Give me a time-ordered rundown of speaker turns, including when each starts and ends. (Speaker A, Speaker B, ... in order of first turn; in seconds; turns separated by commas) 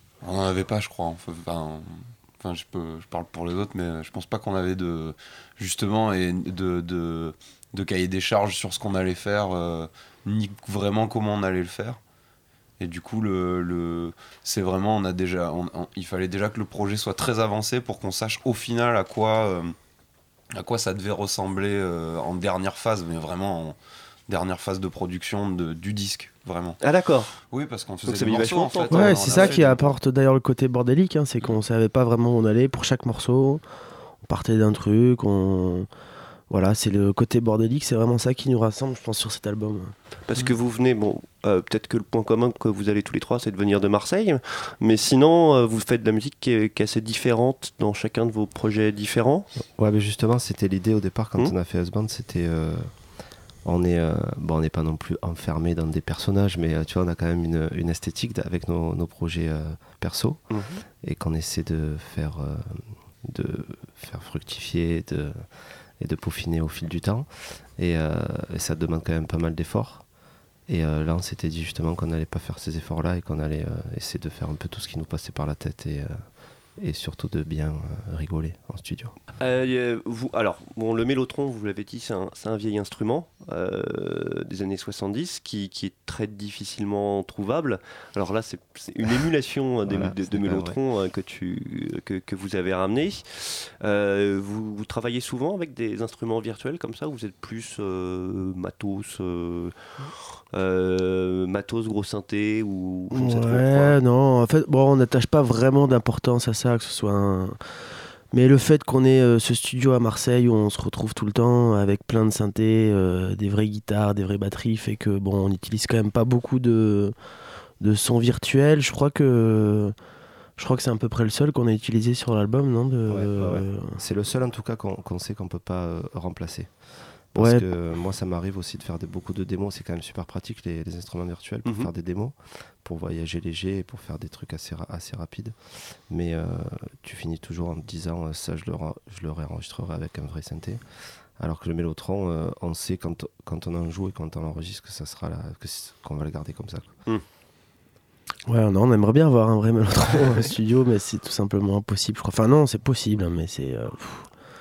Speaker A: 0.2-12.0, Speaker A: 12.8-19.7, Speaker A: 20.6-23.8, Speaker A: 24.3-26.8, Speaker B: 26.8-27.4, Speaker A: 27.5-29.9, Speaker B: 28.0-29.8, Speaker C: 28.9-33.6, Speaker C: 34.2-35.9, Speaker C: 36.5-39.9, Speaker B: 40.3-49.5, Speaker D: 49.8-52.9, Speaker D: 53.6-60.4, Speaker B: 60.5-60.8, Speaker D: 61.0-70.0, Speaker D: 70.7-76.2, Speaker D: 76.8-79.1, Speaker B: 79.4-99.7, Speaker D: 89.8-90.8, Speaker B: 100.5-104.0, Speaker C: 103.1-107.6, Speaker C: 108.3-117.1, Speaker C: 117.8-119.9, Speaker C: 120.6-124.0, Speaker D: 123.1-140.8, Speaker C: 127.3-127.6, Speaker B: 131.6-131.9, Speaker D: 141.4-146.9, Speaker C: 148.4-154.3